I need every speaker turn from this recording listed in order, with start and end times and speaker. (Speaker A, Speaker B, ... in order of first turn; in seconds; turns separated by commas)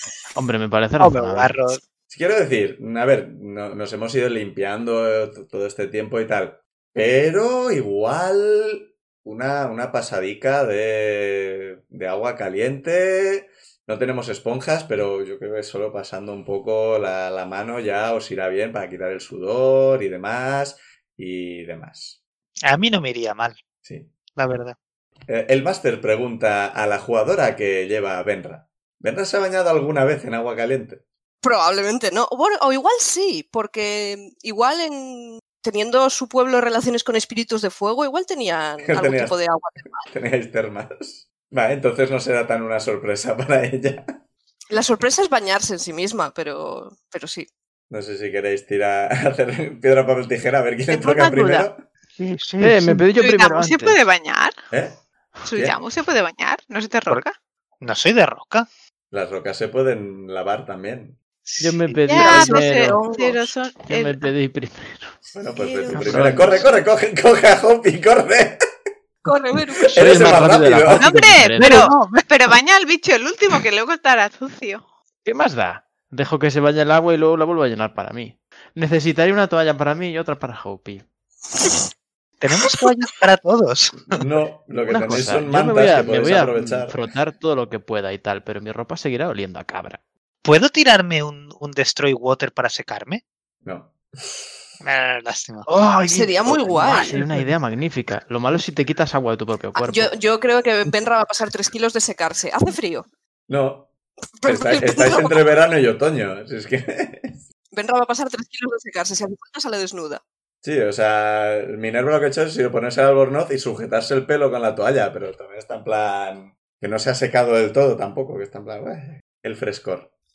Speaker A: 0.3-1.6, Speaker B: 1.0-1.8, Speaker C: 2.1-22.2, Speaker B: 22.6-23.6, Speaker C: 23.8-24.1, Speaker B: 24.4-24.8, Speaker C: 25.3-31.0, Speaker D: 31.4-40.1, Speaker C: 38.9-39.4, Speaker C: 40.0-44.1, Speaker D: 44.7-47.5, Speaker C: 47.9-51.8, Speaker E: 50.9-51.7, Speaker B: 52.2-53.0, Speaker A: 52.6-54.0, Speaker E: 53.1-54.5, Speaker C: 54.7-55.8, Speaker D: 55.5-55.7, Speaker E: 55.5-57.3, Speaker B: 57.8-58.7, Speaker C: 59.1-61.2, Speaker B: 61.5-61.8, Speaker A: 61.6-63.0, Speaker E: 62.1-64.3, Speaker D: 62.1-63.4, Speaker A: 63.8-65.2, Speaker C: 65.3-68.6, Speaker D: 65.5-66.6, Speaker A: 65.9-66.6, Speaker D: 69.2-70.3, Speaker C: 69.8-71.1, Speaker A: 69.9-71.9, Speaker E: 70.9-74.8, Speaker B: 71.6-72.2, Speaker A: 75.2-81.0, Speaker B: 82.4-84.2, Speaker C: 84.1-87.0, Speaker A: 84.9-90.0, Speaker B: 90.4-93.2, Speaker C: 93.6-94.6, Speaker B: 94.8-95.7, Speaker A: 95.7-100.1, Speaker D: 96.1-97.2, Speaker B: 96.8-97.1, Speaker D: 99.7-103.0, Speaker C: 103.5-103.9, Speaker D: 104.4-105.4, Speaker C: 104.4-107.4, Speaker D: 107.7-110.2, Speaker C: 110.6-120.1